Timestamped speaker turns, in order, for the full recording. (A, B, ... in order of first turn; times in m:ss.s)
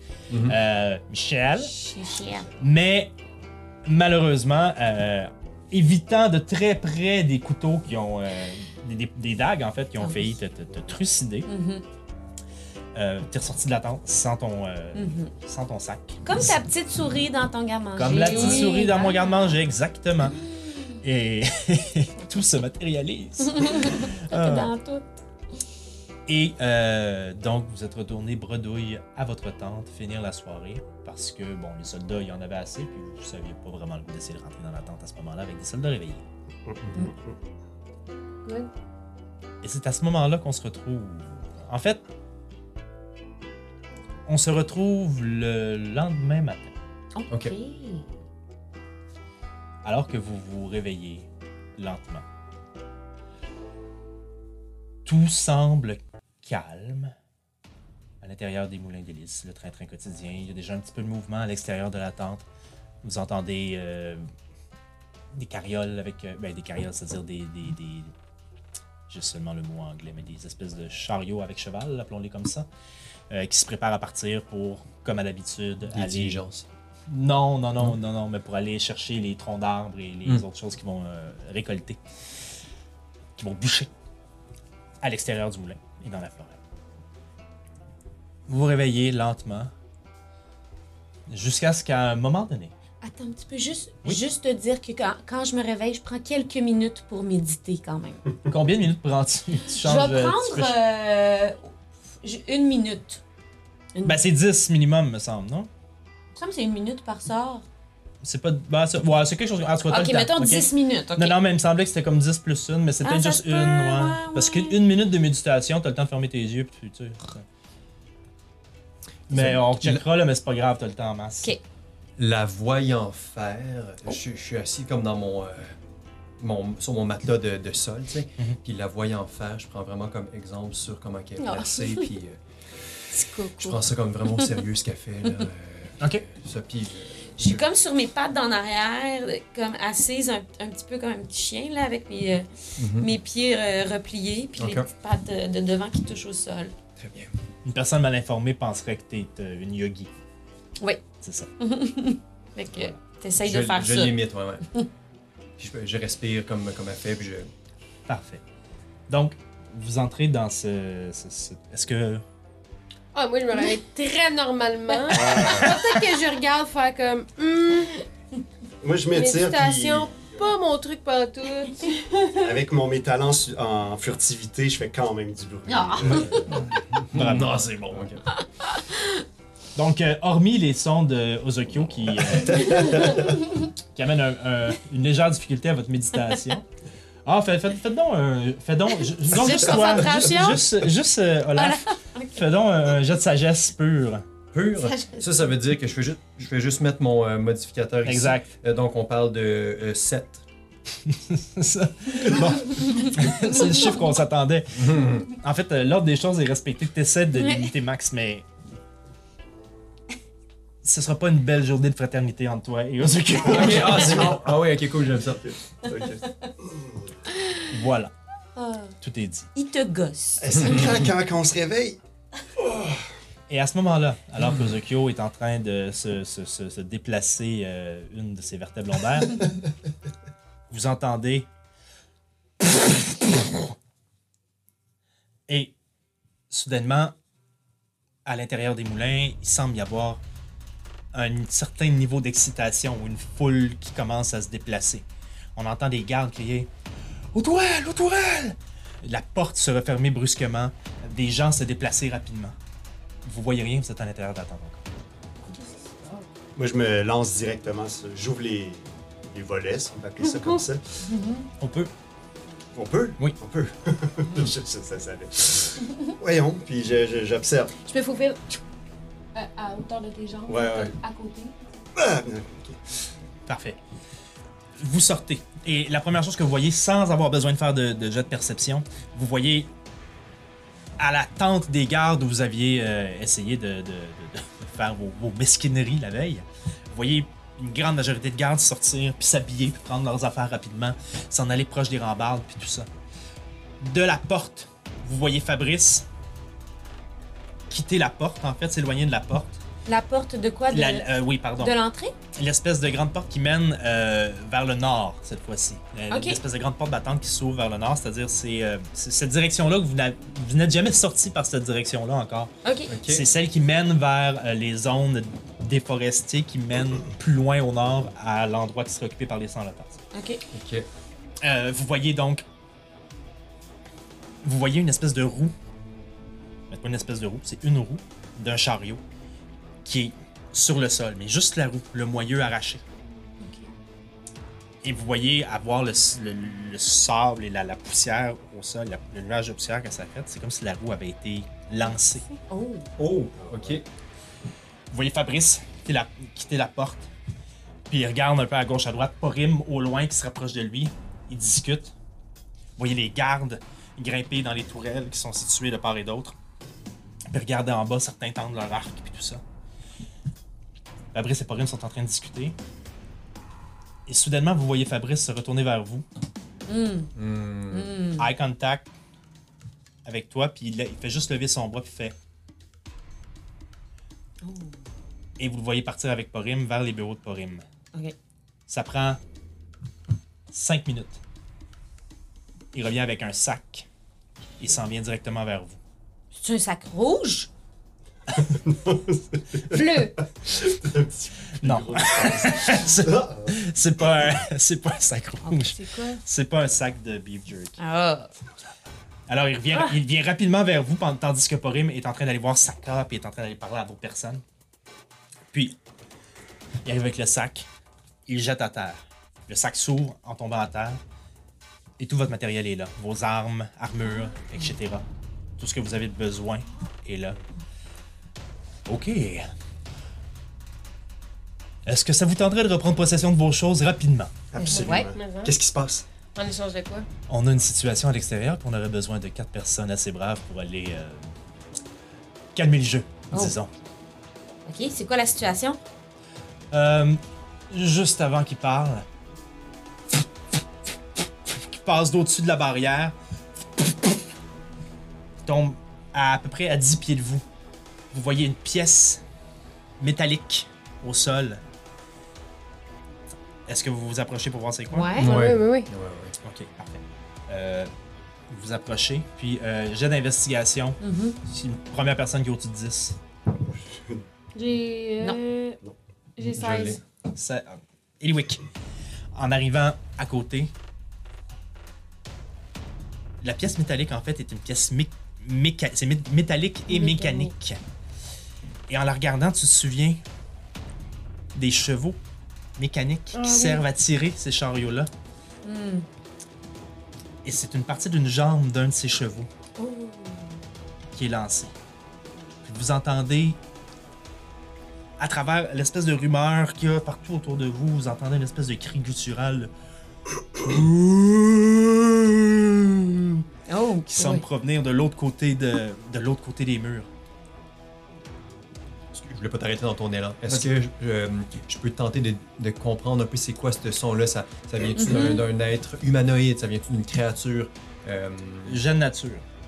0:00.3-0:00.6 A
0:00.4-0:01.7 B
0:01.6-0:02.5 C
0:02.6-0:03.1 B
0:03.8-0:11.5 B
0:10.0-0:10.3 C
0:11.5-0:11.8 C
0:12.9-0:16.2 B
0:15.0-0:15.3 C
0:16.2-0:19.5 C
0:18.0-0:20.4 B
0:18.4-0:18.7 A
0:20.3-0:20.9 C
0:21.0-0:24.7 B
0:23.4-0:25.1 C
0:26.3-0:36.2 B
0:36.6-0:37.3 D
0:36.8-0:37.1 A
0:38.4-0:38.7 E
0:39.6-0:42.0 B
0:44.2-0:46.7 B
0:47.1-0:48.1 C
0:47.3-0:47.5 A
0:49.8-0:52.2 B
0:55.0-0:57.1 B
0:58.2-1:02.4 B
1:03.0-1:04.3 B
1:05.3-1:08.1 B
1:09.1-1:12.7 B
1:13.3-1:16.4 B
1:15.9-1:16.6 A
1:17.1-1:22.0 B
1:23.4-1:23.9 B
1:25.0-1:26.6 B
1:28.5-1:29.7 B
1:31.3-1:32.7 B
1:33.0-1:38.2 C
1:38.5-1:40.7 B
1:39.8-1:41.7 C
1:42.2-1:43.2 C
1:44.0-1:45.7 B
1:46.4-1:47.6 C
1:48.2-1:57.4 B
1:49.9-1:51.4 C
1:53.0-1:54.8 C
1:59.3-2:01.6 B
1:59.3-2:00.0 A
2:02.2-2:05.7 A
2:06.4-2:13.0 A
2:11.4-2:12.1 C
2:13.1-2:13.8 C
2:13.6-2:17.6 A
2:16.0-2:16.2 B
2:17.4-2:26.7 C
2:22.8-2:23.1 A
2:24.6-2:24.9 A
2:27.0-2:27.3 A
2:27.6-2:30.1 B
2:31.2-2:31.5 B
2:31.6-2:34.2 C
2:33.4-2:34.6 A
2:35.6-2:37.5 A
2:38.1-2:38.4 B
2:39.1-2:42.2 B
2:43.1-2:48.0 E
2:45.1-2:46.1 B
2:45.1-2:45.8 D
2:48.8-2:50.4 D
2:49.1-2:52.5 E
2:52.4-2:56.7 D
2:55.7-2:56.4 C
2:56.9-2:58.2 A
2:57.1-2:57.6 B
2:58.6-2:59.2 C
2:59.8-3:03.4 B
3:02.4-3:03.2 D
3:03.9-3:06.6 B
3:07.2-3:14.2 B
3:09.3-3:10.6 E
3:09.4-3:10.1 C
3:11.6-3:12.4 C
3:14.5-3:20.4 A
3:18.0-3:18.5 B
3:21.0-3:28.5 B
3:24.7-3:25.3 A
3:27.3-3:27.7 C
3:30.8-3:34.4 B
3:33.4-3:35.5 A
3:35.4-3:37.0 D
3:37.7-3:38.1 B
3:38.6-3:38.9 C
3:39.0-3:39.5 B
3:39.5-3:40.8 C
3:40.4-3:42.0 D
3:42.6-3:43.0 D
3:43.5-3:49.4 B
3:44.4-3:44.7 A
3:50.7-3:51.5 B
3:52.6-3:53.7 B
3:55.5-3:55.7 B
3:56.5-3:57.1 B
3:58.2-4:00.2 B
4:01.1-4:05.0 B
4:05.6-4:06.7 B
4:07.3-4:12.6 B
4:13.2-4:14.8 B
4:16.6-4:21.0 D
4:20.2-4:21.5 E
4:21.6-4:21.9 B
4:22.7-4:27.7 D
4:27.8-4:28.6 E
4:29.3-4:31.6 E
4:30.5-4:31.0 D
4:32.0-4:32.8 D
4:33.5-4:33.8 B
4:34.8-4:39.7 B
4:41.0-4:52.9 B
4:53.8-4:56.0 B
4:57.7-4:59.6 B
4:59.8-5:02.2 C
5:00.7-5:01.7 B
5:02.3-5:12.5 B
5:06.1-5:06.4 C
5:12.6-5:12.9 C
5:12.9-5:13.2 A
5:13.0-5:20.0 B
5:20.1-5:20.4 C
5:20.5-5:20.8 A
5:21.4-5:22.4 B
5:24.4-5:25.5 B
5:26.7-5:29.0 B
5:29.8-5:32.8 B
5:34.8-5:42.2 B
5:42.5-5:42.9 C
5:43.0-5:43.8 A
5:43.3-5:43.8 D
5:44.9-5:47.1 B
5:47.9-5:51.9 B
5:52.8-5:56.4 B
5:57.3-5:59.4 B
6:01.1-6:02.6 B
6:04.0-6:06.0 B
6:06.7-6:07.1 C
6:07.1-6:07.9 A
6:07.7-6:08.3 C
6:08.2-6:08.9 B
6:10.0-6:12.1 B
6:14.4-6:14.8 C
6:15.4-6:17.6 B
6:18.7-6:19.2 B
6:20.5-6:21.2 B
6:22.7-6:23.8 B
6:24.6-6:25.8 B
6:26.4-6:27.5 C
6:28.4-6:33.6 D
6:29.7-6:30.1 C
6:31.6-6:37.8 B
6:35.4-6:35.7 C
6:35.7-6:36.2 E
6:37.8-6:38.3 C
6:39.3-6:44.4 B
6:46.8-6:47.7 B
6:48.3-6:51.0 B
6:52.0-6:55.0 B
6:54.1-6:54.4 C
6:55.6-6:57.4 B
6:58.8-6:59.5 B
7:01.8-7:04.3 B
7:04.5-7:06.0 D
7:04.6-7:05.1 C
7:04.7-7:05.5 E
7:06.3-7:07.1 E
7:07.3-7:11.2 B
7:12.5-7:13.7 B
7:14.6-7:15.8 C
7:16.7-7:19.0 B
7:21.5-7:24.2 B
7:25.4-7:27.4 B
7:28.1-7:29.2 B
7:30.0-7:31.6 B
7:33.6-7:35.1 B
7:34.9-7:35.4 C
7:35.1-7:35.9 E
7:35.2-7:36.3 A
7:36.4-7:37.9 B
7:38.5-7:43.2 B
7:41.0-7:41.4 C
7:43.7-7:44.2 D
7:44.5-7:45.8 E
7:46.4-7:47.0 E
7:46.4-7:47.0 A
7:47.3-7:48.6 B
7:49.3-7:50.7 B
7:53.4-7:57.8 B
7:56.9-7:57.4 E
7:57.0-7:57.4 C
7:58.9-8:00.2 B
8:01.5-8:02.2 B
8:02.8-8:05.1 B
8:03.3-8:03.8 E
8:05.6-8:06.0 C
8:07.4-8:09.5 B
8:09.8-8:10.5 C
8:11.1-8:11.7 B
8:12.6-8:13.6 B
8:15.2-8:19.7 B
8:20.5-8:23.4 B
8:23.7-8:24.4 C
8:24.1-8:27.1 B
8:29.1-8:38.8 A
8:35.0-8:35.4 C
8:38.6-8:39.4 B